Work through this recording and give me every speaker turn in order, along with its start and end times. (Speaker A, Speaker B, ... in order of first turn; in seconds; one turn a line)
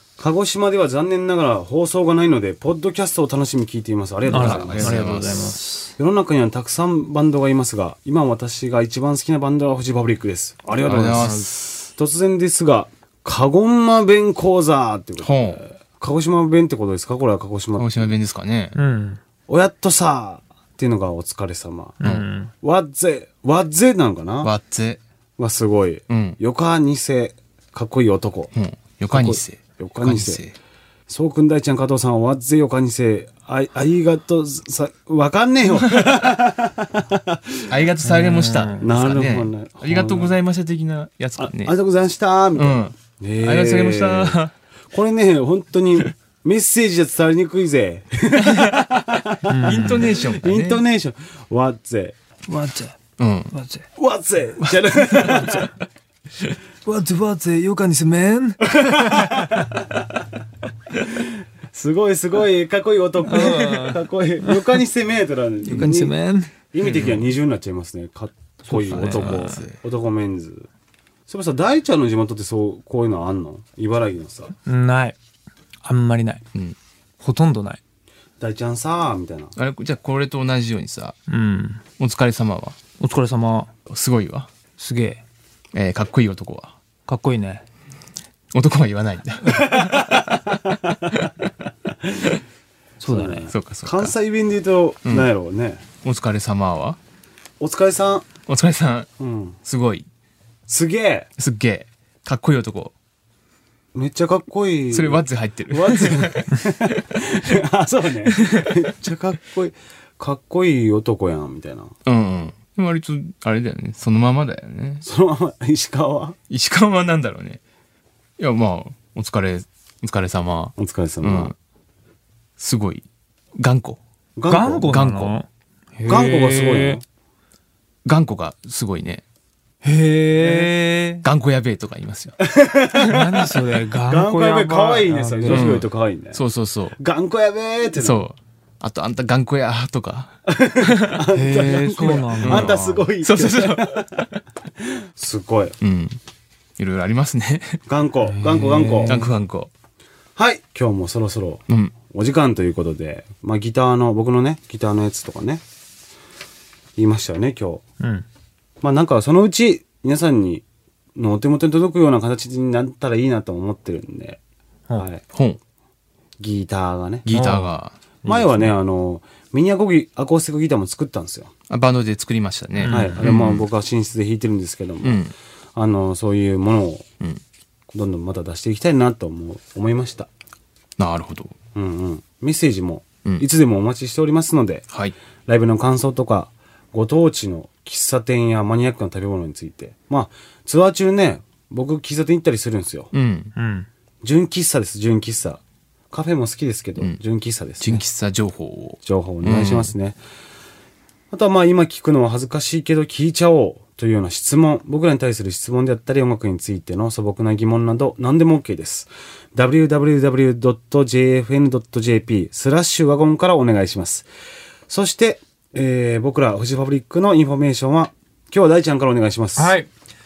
Speaker A: 0.2-11.3
Speaker B: 4.3-5.6
Speaker C: 4.3-5.9
Speaker B: 10.8-11.9
Speaker C: 11.1-11.5
Speaker A: 12.0-18.1
Speaker B: 15.2-15.6
Speaker B: 17.8-18.8
Speaker C: 18.8-19.2
Speaker A: 19.5-22.0
Speaker C: 22.0-22.5
Speaker A: 22.6-24.5
Speaker B: 24.4-25.0
Speaker A: 25.4-28.5
Speaker B: 26.1-26.4
Speaker B: 28.5-30.6
Speaker A: 29.1-30.4
Speaker A: 31.1-37.5
Speaker B: 37.7-41.7
Speaker C: 38.0-38.9
Speaker A: 38.8-40.3
Speaker A: 41.4-44.4
Speaker B: 42.5-44.5
Speaker A: 44.9-52.1
Speaker C: 49.5-50.1
Speaker B: 49.7-50.8
Speaker C: 52.5-53.0
Speaker B: 53.2-53.5
Speaker C: 53.5-53.9
Speaker A: 54.0-55.7
Speaker C: 55.2-55.5
Speaker C: 56.9-59.6
Speaker A: 59.0-59.5
Speaker A: 61.7-66.1
Speaker C: 63.3-64.6
Speaker C: 65.7-66.5
Speaker A: 66.7-70.7
Speaker B: 66.8-67.3
Speaker C: 68.7-69.6
Speaker B: 68.9-69.8
Speaker A: 71.3-74.5
Speaker C: 74.7-75.2
Speaker C: 75.8-76.4
Speaker C: 77.2-77.8
Speaker A: 78.4-79.5
Speaker B: 79.6-81.2
Speaker C: 81.3-81.8
Speaker B: 82.0-82.8
Speaker C: 83.0-83.7
Speaker B: 83.9-84.5
Speaker C: 84.8-85.2
Speaker B: 85.7-86.7
Speaker C: 87.1-87.6
Speaker B: 88.5-90.5
Speaker C: 93.0-93.5
Speaker A: 93.1-95.8
Speaker B: 93.5-94.2
Speaker B: 96.0-97.0
Speaker A: 97.6-98.3
Speaker B: 98.5-99.1
Speaker A: 99.2-99.6
Speaker B: 99.7-100.1
Speaker A: 100.7-101.3
Speaker B: 101.4-102.9
Speaker A: 103.9-111.9
Speaker B: 104.9-106.6
Speaker B: 112.1-115.0
Speaker A: 115.0-116.4
Speaker B: 116.5-117.6
Speaker B: 118.4-121.5
Speaker A: 120.8-121.5
Speaker B: 122.6-123.0
Speaker B: 123.6-124.0
Speaker A: 124.4-124.9
Speaker C: 124.5-127.0
Speaker B: 124.9-125.3
Speaker A: 126.1-127.0
Speaker B: 128.1-129.2
Speaker C: 129.8-131.2
Speaker B: 131.2-132.4
Speaker A: 132.4-133.4
Speaker C: 133.0-135.8
Speaker A: 134.1-136.4
Speaker B: 135.5-137.0
Speaker A: 137.0-138.3
Speaker B: 138.0-141.2
Speaker A: 140.5-144.1
Speaker C: 141.3-142.7
Speaker B: 142.4-144.3
Speaker A: 145.0-145.8
Speaker B: 145.8-146.2
Speaker B: 146.8-147.8
Speaker A: 147.9-149.3
Speaker C: 148.3-149.2
Speaker B: 149.1-149.7
Speaker A: 150.4-155.6
Speaker B: 151.7-151.9
Speaker A: 157.0-157.8
Speaker A: 158.8-160.6
Speaker A: 161.2-164.4
Speaker B: 165.3-165.6
Speaker A: 166.4-167.3
Speaker B: 167.3-168.0
Speaker C: 167.3-167.7
Speaker C: 168.2-168.7
Speaker A: 168.3-171.5
Speaker B: 171.7-173.7
Speaker C: 172.8-173.2
Speaker A: 172.9-175.2
Speaker B: 175.0-175.3
Speaker A: 175.8-177.1
Speaker A: 177.9-180.3
Speaker B: 181.0-181.5
Speaker A: 181.8-184.9
Speaker A: 185.5-193.1
Speaker B: 193.1-193.5
Speaker C: 193.6-193.9
Speaker A: 194.2-198.0
Speaker B: 197.8-199.9
Speaker A: 199.0-200.2
Speaker A: 201.3-214.3
Speaker A: 214.9-219.8
Speaker C: 219.6-219.9